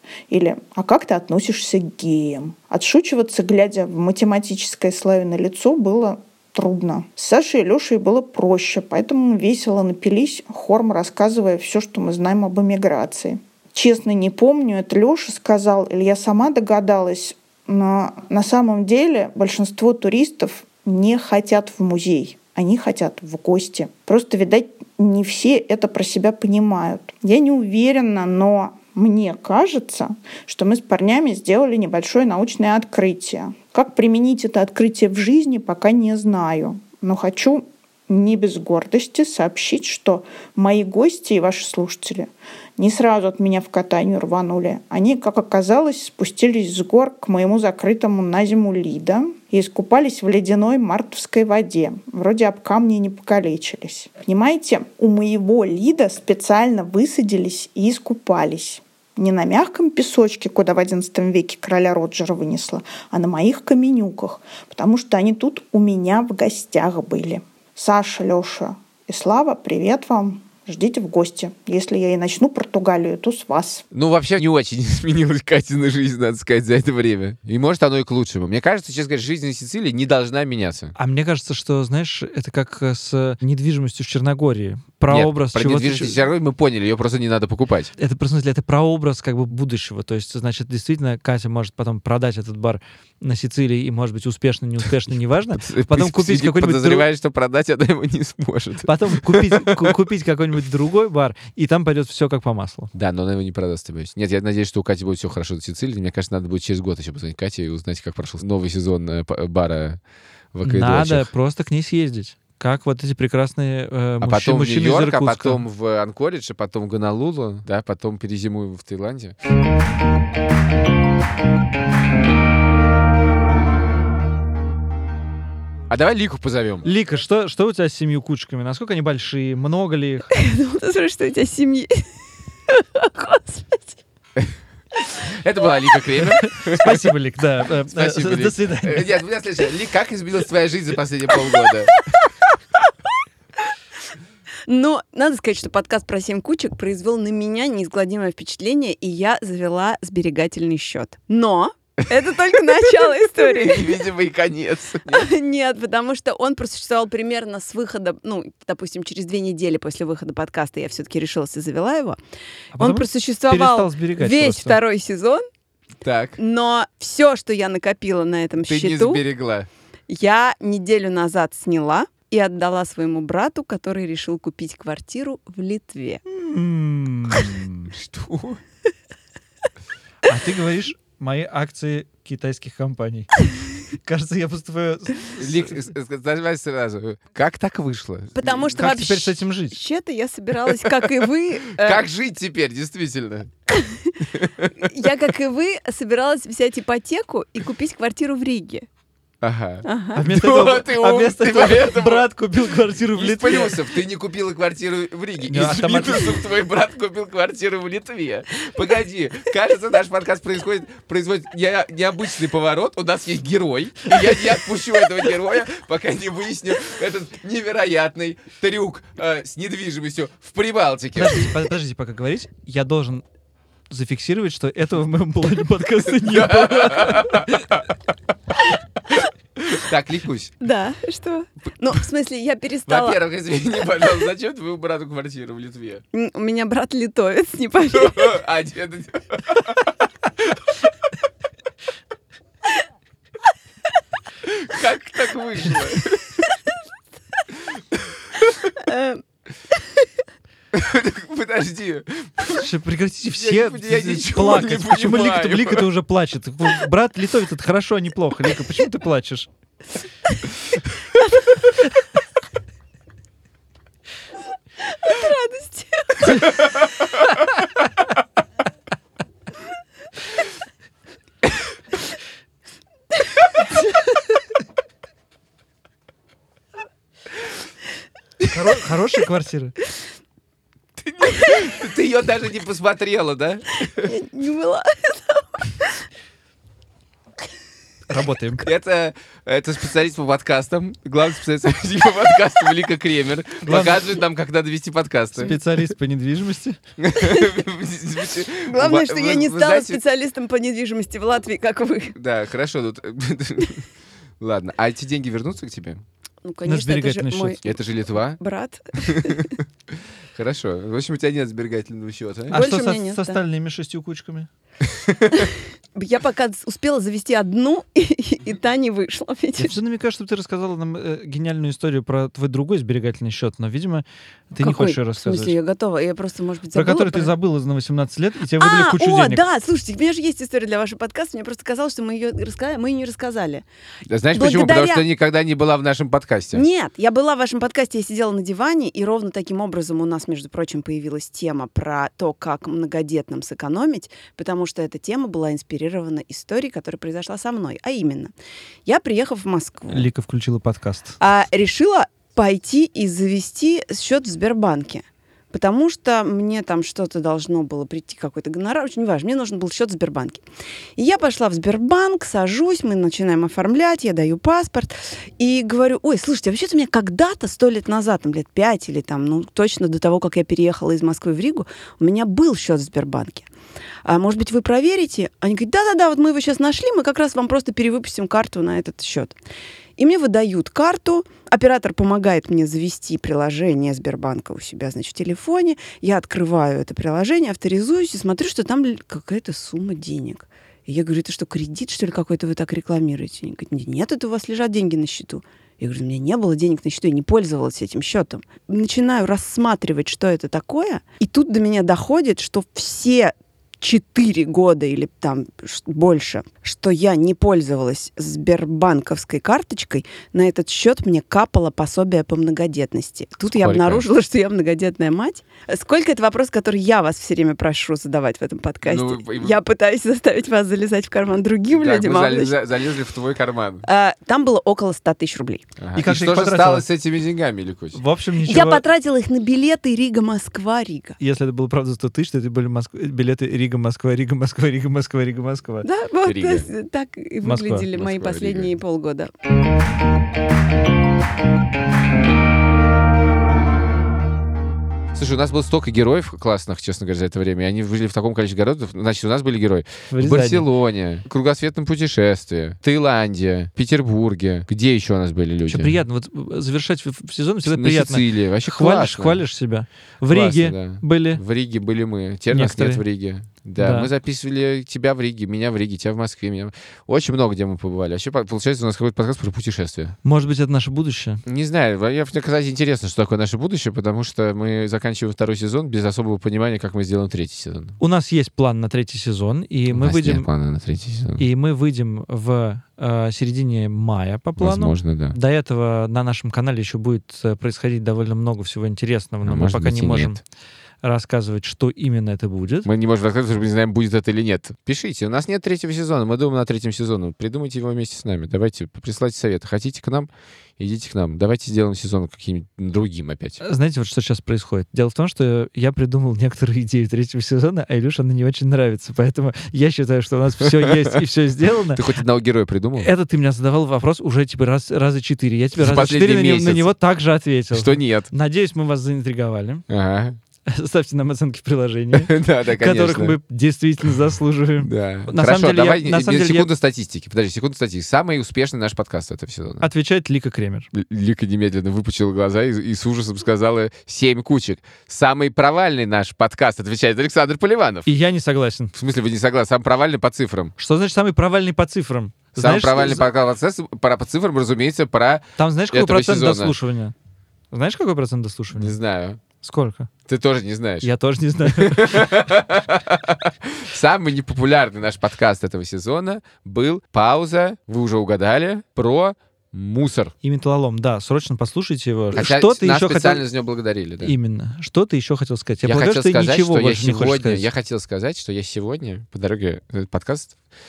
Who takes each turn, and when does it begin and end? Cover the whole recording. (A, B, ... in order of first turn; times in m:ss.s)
0:00.3-1:13.8 A
1:13.9-1:21.0 B
1:21.0-1:26.2 C
1:25.1-1:27.9 B
1:28.0-1:37.0 C
1:35.6-1:39.7 B
1:38.9-1:42.9 C
1:42.9-1:50.0 B
1:50.5-1:51.3 B
1:50.6-1:55.6 C
1:54.2-1:59.4 B
2:05.9-2:06.9 B
2:06.8-2:10.3 C
2:10.4-2:12.0 D
2:12.7-2:14.0 D
2:15.3-2:17.1 B
2:16.4-2:19.1 C
2:17.9-2:21.9 B
2:24.7-2:34.0 D
2:32.6-2:35.3 B
2:35.1-2:42.2 D
2:42.7-2:44.8 C
2:42.8-2:45.4 D
2:46.0-2:46.4 B
2:46.4-2:49.2 D
2:48.7-2:49.7 B
2:50.1-2:56.2 D
2:56.3-2:57.9 C
2:57.9-2:58.6 B
3:00.2-3:03.3 C
3:04.0-3:05.9 C
3:05.4-3:08.8 B
3:08.3-3:12.1 D
3:08.8-3:09.8 C
3:11.8-3:13.5 B
3:13.7-3:14.1 D
3:14.3-3:14.9 B
3:14.8-3:18.9 D
3:19.4-3:22.3 B
3:19.8-3:20.2 D
3:20.1-3:23.8 C
3:23.1-3:41.5 B
3:25.5-3:26.4 C
3:41.2-3:43.2 C
3:43.9-3:47.4 C
3:46.2-3:47.8 B
3:49.1-3:50.5 B
3:50.6-3:53.2 D
3:52.9-3:56.0 B
3:56.1-3:58.4 D
3:58.0-3:59.8 B
4:04.4-4:06.3 B
4:08.8-4:09.2 D
4:10.7-4:12.6 B
4:12.6-4:19.5 C
4:13.4-4:15.8 B
4:24.9-4:26.8 D
4:38.5-4:39.8 C
4:41.0-4:44.1 B
4:44.1-4:45.9 D
4:48.1-4:48.6 C
4:48.6-4:55.6 B
4:53.6-4:54.0 C
4:55.4-4:56.8 C
4:57.0-5:00.0 B
4:58.6-5:02.2 D
5:02.2-5:03.9 B
5:04.4-5:06.0 B
5:06.4-5:07.8 D
5:06.6-5:07.6 C
5:07.6-5:08.4 B
5:08.3-5:09.5 D
5:09.0-5:09.5 B
5:10.4-5:12.6 B
5:12.5-5:13.4 D
5:12.5-5:14.5 C
5:15.1-5:15.4 B
5:15.4-5:19.8 D
5:19.6-5:25.6 C
5:24.6-5:27.3 D
5:26.7-5:29.4 C
5:28.6-5:33.6 D
5:34.1-5:36.6 B
5:34.3-5:35.1 D
5:36.5-5:48.3 D
5:48.9-5:50.1 D
5:49.9-5:51.2 C
5:51.2-6:00.4 D
6:01.0-6:13.5 D
6:14.0-6:19.4 D
6:20.0-7:02.6 D
6:53.5-6:54.1 B
6:58.8-6:59.6 B
7:01.7-7:03.8 B
7:03.8-7:05.7 D
7:05.8-7:08.0 B
7:06.0-7:06.8 C
7:07.9-7:08.8 C
7:08.5-7:11.2 D
7:11.2-7:15.9 C
7:15.8-7:19.3 D
7:16.2-7:16.7 B
7:17.4-7:17.8 C
7:17.9-7:18.7 B
7:25.1-7:36.0 B
7:30.1-7:30.6 C
7:35.7-7:41.4 C
7:37.6-7:39.4 B
7:40.3-7:50.2 B
7:42.5-7:43.0 C
7:43.8-7:44.1 C
7:50.2-7:51.4 C
7:51.4-7:58.0 B
7:58.0-8:00.5 C
7:59.9-8:01.4 B
8:01.4-8:10.4 C
8:04.6-8:05.4 B
8:09.4-8:10.4 B
8:11.0-8:12.9 C
8:12.9-8:23.6 B
8:23.6-8:32.0 C
8:31.9-8:33.1 B
8:33.0-8:39.8 C
8:35.8-8:36.9 B
8:37.7-8:38.3 B
8:39.9-8:40.4 B
8:40.7-8:46.7 C
8:42.2-8:43.4 B
8:44.8-8:49.9 B
8:49.8-8:50.9 C
8:50.9-8:58.1 B
8:58.1-8:58.9 C
8:58.9-9:00.7 B
9:00.8-9:03.2 C
9:02.6-9:06.8 B
9:05.6-9:07.1 C
9:07.7-9:09.0 C
9:08.7-9:09.4 B
9:09.6-9:10.1 C
9:10.3-9:11.1 B
9:11.0-9:12.2 C
9:11.8-9:20.3 B
9:20.4-9:23.4 C
9:22.3-9:24.3 B
9:24.2-9:27.6 C
9:25.8-9:30.6 B